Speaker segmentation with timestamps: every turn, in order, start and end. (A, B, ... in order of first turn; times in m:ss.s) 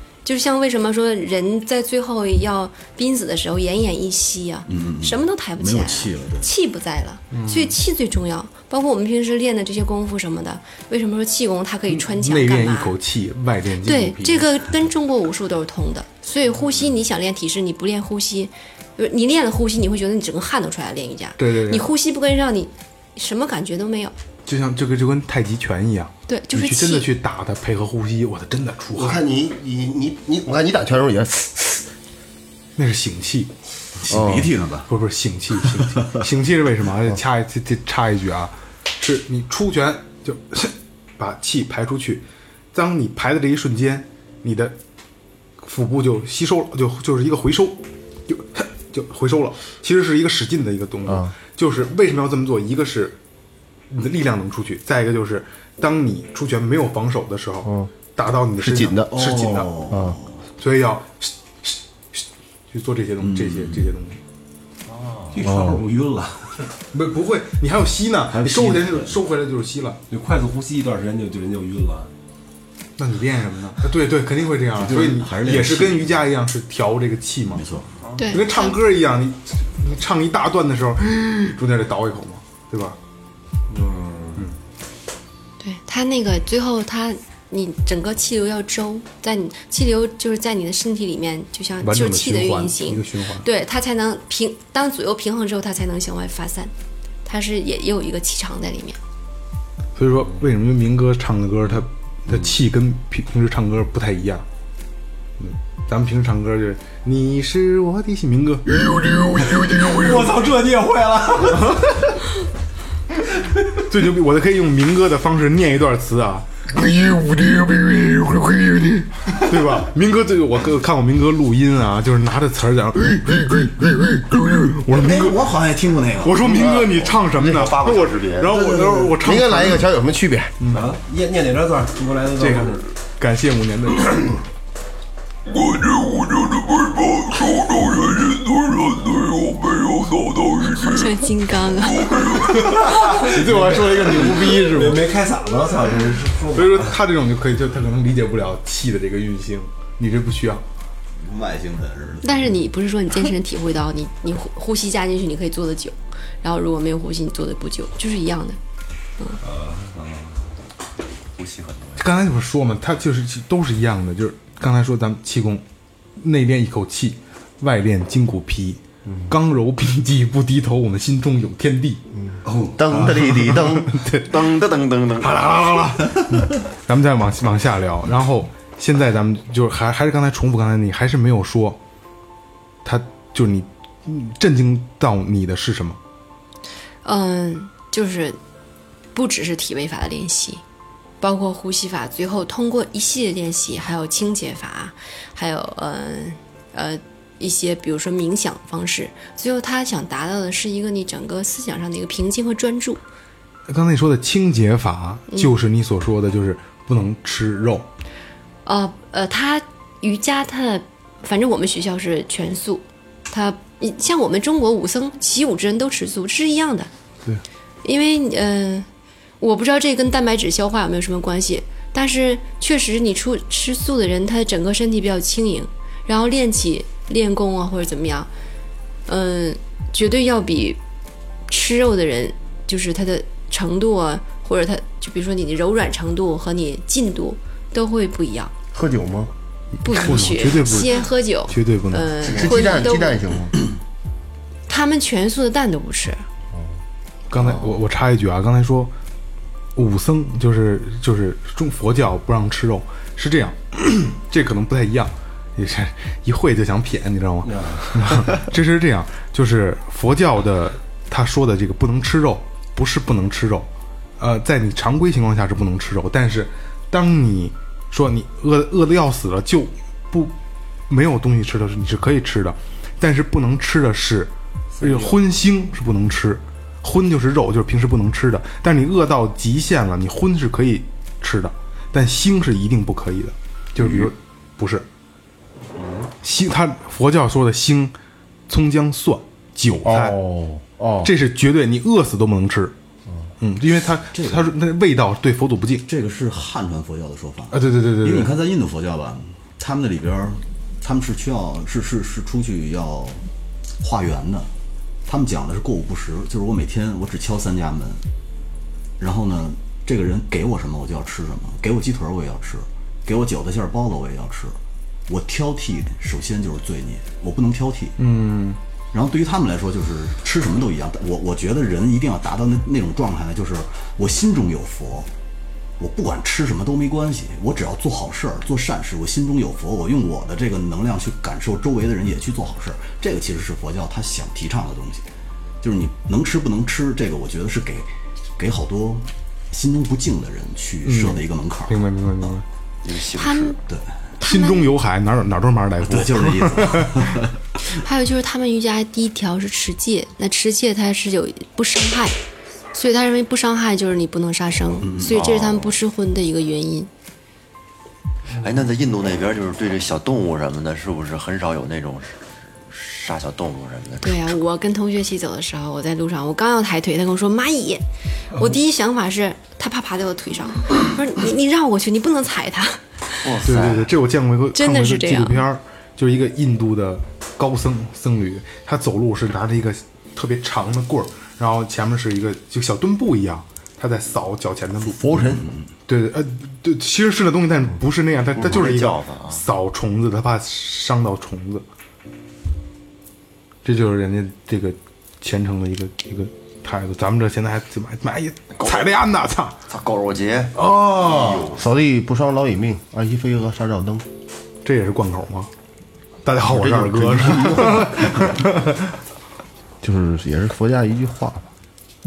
0:00.2-0:12.9 A
0:04.7-0:06.5 B
0:07.3-0:07.8 C
0:11.9-0:14.6 C
0:13.8-0:24.1 A
0:21.4-0:21.9 C
0:24.4-0:29.2 C
0:26.3-0:27.1 A
0:28.9-0:31.8 D
0:32.8-0:33.5 C
0:34.0-0:34.9 B
0:34.1-0:34.5 D
0:34.9-0:44.8 C
0:35.6-0:36.2 B
0:45.6-0:53.2 C
0:51.0-0:51.3 D
0:53.9-0:59.7 C
0:57.6-0:57.9 D
0:58.6-0:59.1 D
0:59.1-1:00.4 B
0:59.9-1:00.2 D
1:00.6-1:04.2 C
1:03.2-1:03.9 B
1:05.3-1:05.8 E
1:05.4-1:06.6 B
1:05.4-1:05.8 D
1:06.9-1:10.0 C
1:08.3-1:09.2 B
1:10.1-1:12.1 E
1:13.0-1:17.7 C
1:14.8-1:16.2 B
1:17.5-1:17.9 B
1:18.2-1:18.8 A
1:18.3-1:23.0 C
1:23.7-1:24.5 E
1:25.6-1:36.7 A
1:31.8-1:33.5 C
1:37.2-1:39.0 A
1:40.0-1:44.4 C
1:45.4-1:50.3 C
1:49.6-1:51.8 E
1:51.4-1:52.3 C
1:53.8-2:05.4 C
2:04.9-2:06.7 B
2:06.2-2:09.9 C
2:06.5-2:07.0 D
2:07.4-2:08.5 F
2:08.5-2:09.2 B
2:09.1-2:10.6 D
2:10.6-2:11.0 C
2:10.7-2:12.8 E
2:12.4-2:14.4 C
2:20.5-2:22.4 A
2:22.6-2:25.1 C
2:22.8-2:27.0 E
2:26.5-2:30.6 C
2:31.2-2:32.6 B
2:32.2-2:38.6 A
2:39.4-2:40.1 E
2:41.4-2:42.0 F
2:42.0-2:45.6 C
2:46.2-2:52.0 C
2:52.2-2:54.0 D
2:52.9-2:54.5 C
2:54.3-2:55.6 F
2:55.2-3:01.8 C
3:02.8-3:06.0 C
3:07.0-3:08.4 A
3:09.1-3:10.6 A
3:11.2-3:23.0 A
3:23.7-3:27.9 C
3:28.6-3:36.9 A
3:37.8-3:38.9 A
3:39.4-3:48.3 A
3:49.1-3:50.8 A
3:51.5-3:58.5 A
3:58.7-3:59.3 D
3:59.8-4:02.3 C
3:59.8-4:03.2 A
4:02.2-4:03.6 D
4:04.7-4:06.2 A
4:07.3-4:08.9 C
4:09.7-4:23.7 C
4:17.4-4:18.4 E
4:24.2-4:30.3 C
4:30.9-4:44.8 C
4:34.8-4:35.2 E
4:46.2-4:47.9 C
4:48.5-4:50.2 C
4:49.8-4:51.1 D
4:51.0-4:52.7 C
4:53.4-4:55.8 C
4:54.1-4:54.5 B
4:55.8-5:03.3 B
4:57.5-4:58.3 C
5:03.8-5:04.5 B
5:05.0-5:08.0 B
5:09.0-5:18.0 B
5:18.0-5:18.6 C
5:18.9-5:25.1 B
5:25.8-5:35.1 B
5:35.6-5:42.3 B
5:40.8-5:42.4 C
5:42.8-5:43.6 F
5:43.1-5:43.6 A
5:43.7-5:44.0 B
5:44.2-5:47.2 C
5:44.2-5:44.6 A
5:45.8-5:47.6 B
5:47.7-5:52.2 A
5:52.7-5:56.9 A
5:54.8-5:55.3 B
5:55.1-5:55.7 F
5:58.4-6:04.4 F
6:04.0-6:13.2 A
6:13.2-6:13.9 F
6:13.4-6:25.1 C
6:14.5-6:15.4 A
6:24.8-6:25.5 D
6:25.2-6:25.6 B
6:25.9-6:31.6 C
6:28.4-6:29.4 F
6:33.6-6:39.6 C
6:38.6-6:38.8 F
6:39.7-6:40.5 F
6:40.6-6:41.4 C
6:41.0-6:44.0 D
6:41.0-6:41.6 F
6:44.6-6:45.5 C
6:46.2-6:48.8 C
6:46.4-6:48.3 D
6:49.8-6:51.4 D